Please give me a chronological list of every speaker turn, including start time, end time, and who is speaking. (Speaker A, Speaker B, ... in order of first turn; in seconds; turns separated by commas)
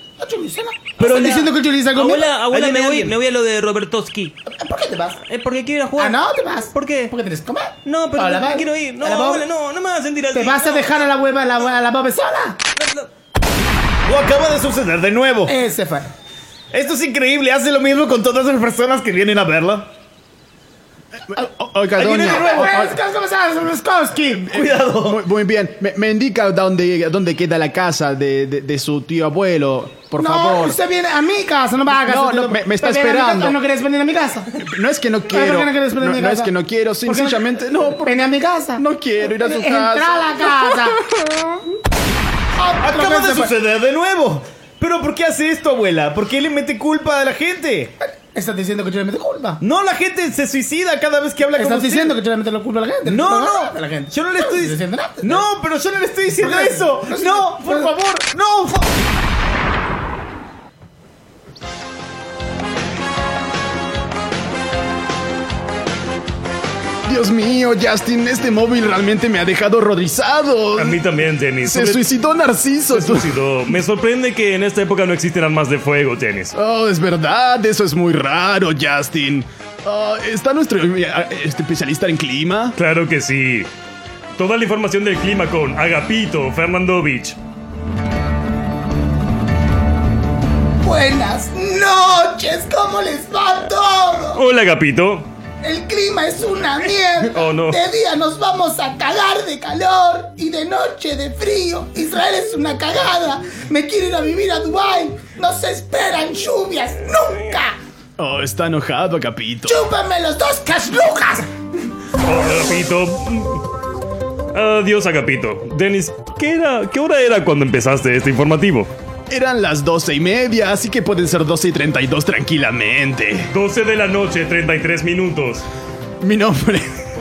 Speaker A: 0.2-2.3, Speaker B: 1.0-4.3, Speaker C: 1.0-1.4, Speaker C: 2.5-3.1, Speaker A: 4.5-5.2, Speaker B: 5.2-6.2, Speaker A: 6.0-9.4, Speaker B: 6.7-7.1, Speaker B: 7.8-11.0, Speaker A: 10.3-12.6, Speaker B: 12.8-13.1, Speaker C: 14.1-15.5, Speaker A: 15.4-16.1, Speaker C: 16.7-19.9, Speaker D: 21.3-22.9, Speaker C: 22.0-22.7, Speaker A: 22.0-24.5, Speaker C: 24.5-25.2, Speaker D: 24.5-30.8, Speaker A: 30.2-34.5, Speaker D: 31.9-33.6, Speaker D: 34.6-38.2, Speaker A: 35.3-36.5, Speaker A: 37.0-41.0, Speaker D: 38.8-40.5, Speaker A: 42.6-43.5, Speaker C: 42.8-47.9, Speaker A: 48.3-49.6, Speaker C: 49.6-52.2, Speaker A: 51.5-55.5, Speaker C: 53.0-58.9, Speaker A: 56.4-57.9, Speaker D: 67.0-71.0, Speaker E: 70.8-72.0, Speaker D: 71.6-73.3, Speaker E: 72.9-76.5, Speaker D: 76.5-82.8, Speaker E: 82.8-83.7, Speaker E: 84.4-87.4, Speaker A: 90.8-94.4, Speaker E: 94.3-95.3, Speaker A: 95.6-107.8, Speaker E: 97.3-97.8, Speaker D: 108.2-109.8, Speaker A: 109.7-111.5, Speaker E: 112.2-113.6, Speaker E: 114.5-118.9, Speaker D: 119.3-123.5, Speaker E: 123.5-125.6, Speaker D: 126.2-126.9